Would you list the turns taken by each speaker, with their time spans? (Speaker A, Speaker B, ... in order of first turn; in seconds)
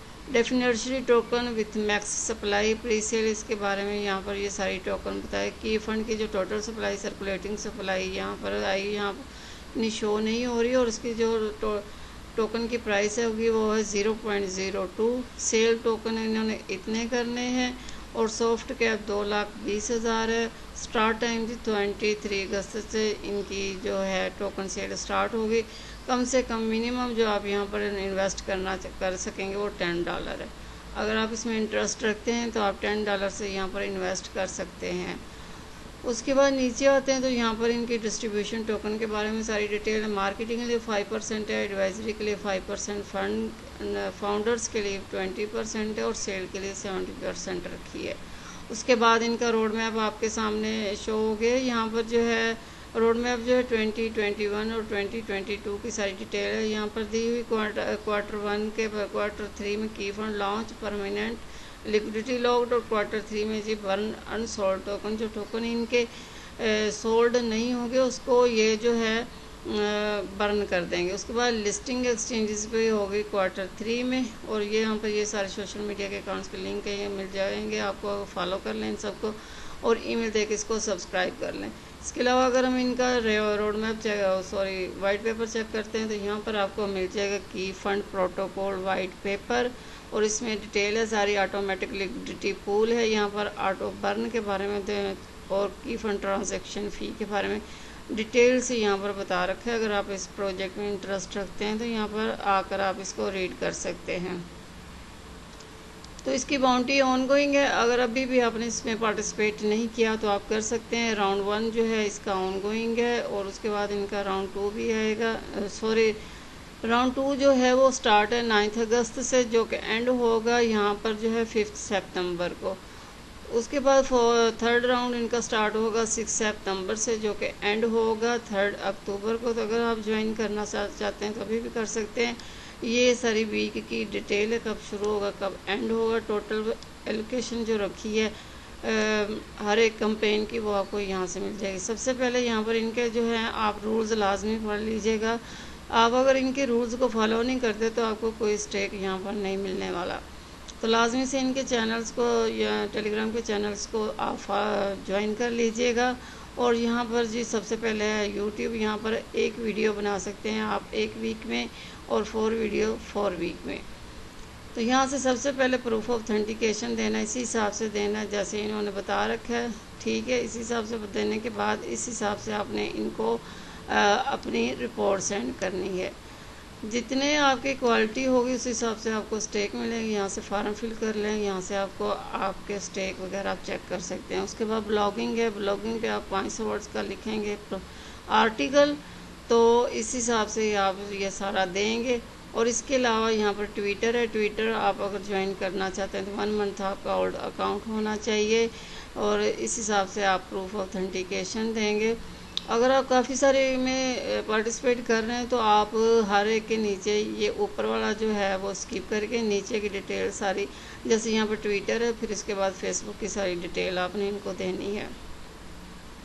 Speaker A: 0.3-35.2, 36.0-48.2, 48.7-104.4, 106.2-116.2, 116.8-122.8, 123.5-150.2, 150.8-163.8, 164.8-176.1, 176.8-202.2, 202.7-215.1